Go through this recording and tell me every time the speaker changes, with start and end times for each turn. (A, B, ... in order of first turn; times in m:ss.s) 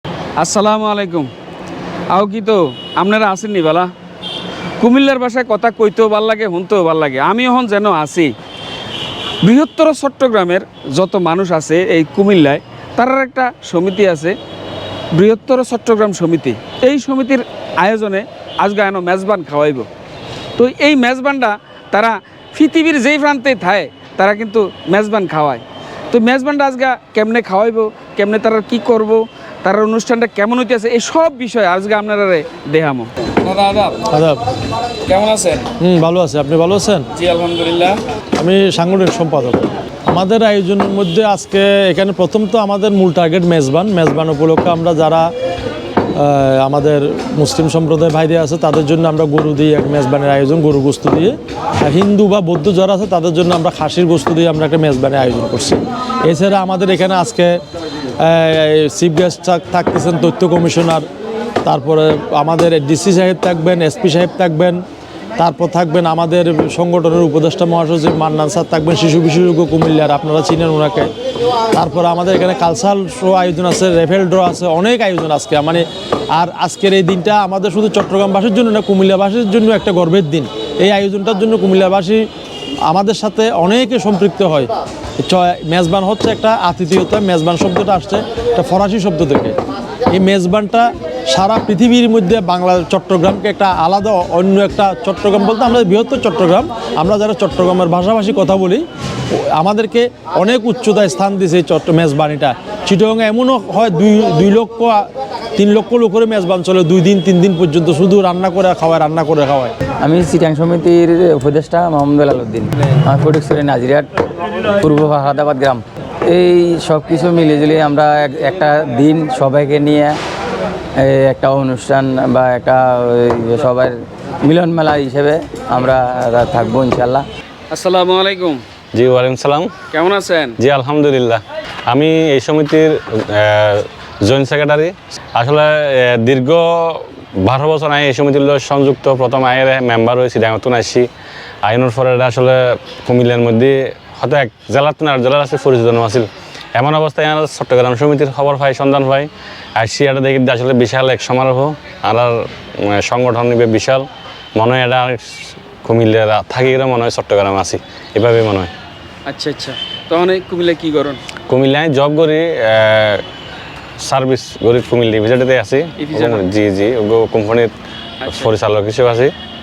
0:00.4-0:01.3 A
0:02.1-0:03.9 A
0:04.8-0:08.3 A
0:09.4-0:14.4 A
0:15.1-0:19.9 A
0:20.6-0:34.1 A
0:34.1-0:34.4 B
0:35.1-0:35.7 A
0:35.8-0:37.1 B
0:37.2-0:38.0 A
0:38.4-0:45.3 B
0:46.2-0:57.6 B
0:58.2-1:01.0 B
1:01.6-1:04.8 B
1:05.4-1:11.1 B
1:11.7-1:22.3 B
1:22.9-1:29.6 B
1:30.1-1:45.0 B
1:45.6-1:49.7 B
1:50.0-1:54.1 C
1:54.8-2:00.2 C
2:01.0-2:07.3 C
2:07.7-2:08.6 A
2:08.9-2:09.8 D
2:09.9-2:10.6 A
2:10.6-2:21.1 D
2:21.6-2:38.7 D
2:39.3-2:41.2 A
2:41.5-2:43.2 D
2:44.0-2:47.7 D
2:46.0-2:46.4 A
2:48.2-2:48.5 A
2:48.3-2:49.3 D